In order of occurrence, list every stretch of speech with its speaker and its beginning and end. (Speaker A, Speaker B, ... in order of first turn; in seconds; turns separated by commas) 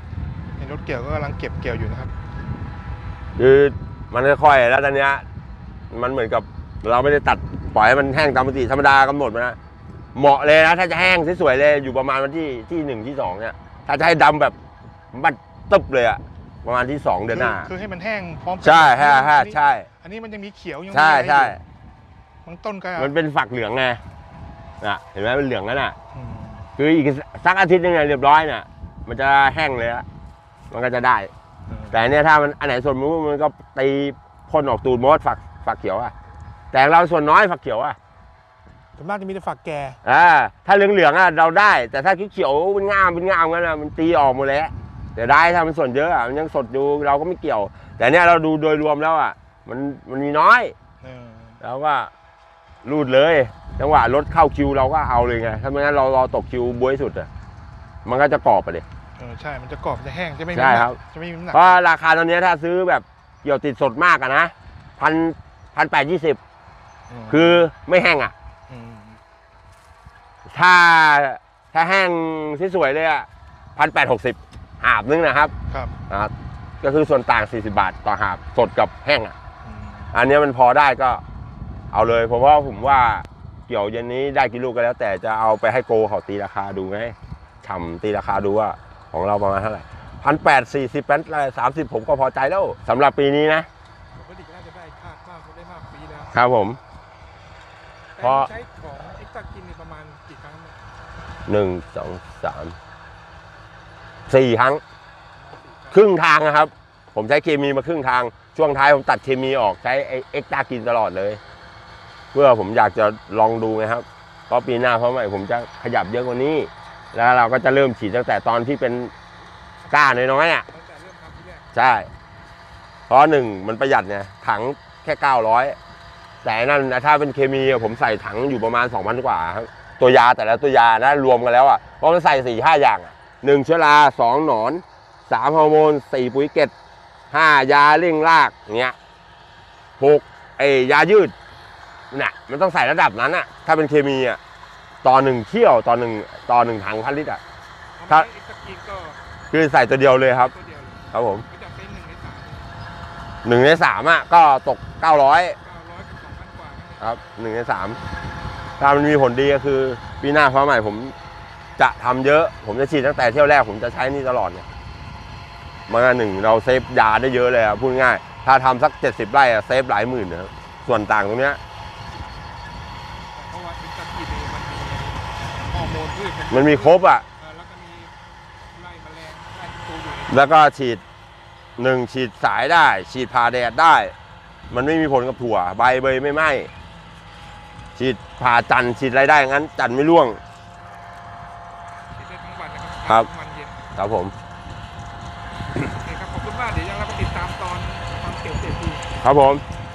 Speaker A: 0.6-2.1, Speaker B: 3.4-5.2, Speaker B: 5.9-9.6, Speaker B: 10.2-14.6, Speaker B: 15.1-17.7, Speaker A: 17.3-21.6, Speaker B: 18.6-19.9, Speaker B: 20.9-21.6, Speaker A: 22.4-23.1, Speaker B: 23.0-24.0, Speaker B: 24.8-26.0, Speaker A: 26.1-26.7, Speaker B: 26.8-30.1, Speaker B: 30.7-31.3, Speaker B: 31.9-36.1, Speaker B: 36.7-38.0, Speaker A: 39.0-40.0, Speaker B: 40.0-50.7, Speaker A: 51.0-51.6, Speaker B: 51.6-52.1, Speaker B: 52.8-57.3, Speaker B: 58.0-58.8, Speaker A: 59.2-61.8, Speaker B: 60.5-61.0, Speaker B: 61.5-66.4, Speaker A: 67.1-67.6, Speaker B: 67.3-68.3, Speaker A: 68.7-69.2, Speaker B: 70.5-75.5, Speaker A: 75.7-76.0, Speaker B: 76.1-79.3, Speaker A: 79.7-80.1, Speaker B: 80.1-81.2, Speaker B: 81.9-93.7, Speaker A: 94.2-96.3, Speaker B: 96.3-96.8, Speaker A: 98.2-100.8, Speaker B: 98.2-98.5, Speaker B: 101.5-102.8, Speaker B: 104.3-104.8, Speaker A: 105.4-106.0, Speaker B: 105.9-111.4, Speaker B: 112.3-119.1, Speaker B: 119.9-120.7, Speaker A: 120.7-121.6, Speaker B: 121.7-122.1, Speaker B: 123.1-125.8, Speaker B: 126.4-136.7, Speaker B: 137.3-139.0, Speaker B: 140.0-141.3, Speaker B: 142.1-144.4, Speaker B: 145.0-147.4, Speaker A: 148.0-149.2, Speaker B: 149.5-150.5, Speaker A: 150.3-152.8, Speaker B: 151.1-151.5, Speaker B: 153.4-155.6, Speaker A: 155.6-157.1, Speaker B: 157.0-158.0, Speaker B: 158.8-161.2, Speaker B: 161.8-164.7, Speaker B: 165.9-171.6, Speaker A: 173.3-178.1, Speaker B: 176.5-177.3, Speaker A: 178.7-180.5, Speaker B: 180.3-181.0, Speaker B: 181.8-184.1, Speaker B: 184.7-186.7, Speaker B: 188.0-190.4, Speaker A: 192.1-193.8, Speaker B: 193.1-193.3, Speaker B: 194.0-194.3, Speaker A: 195.8-199.0, Speaker B: 199.2-199.6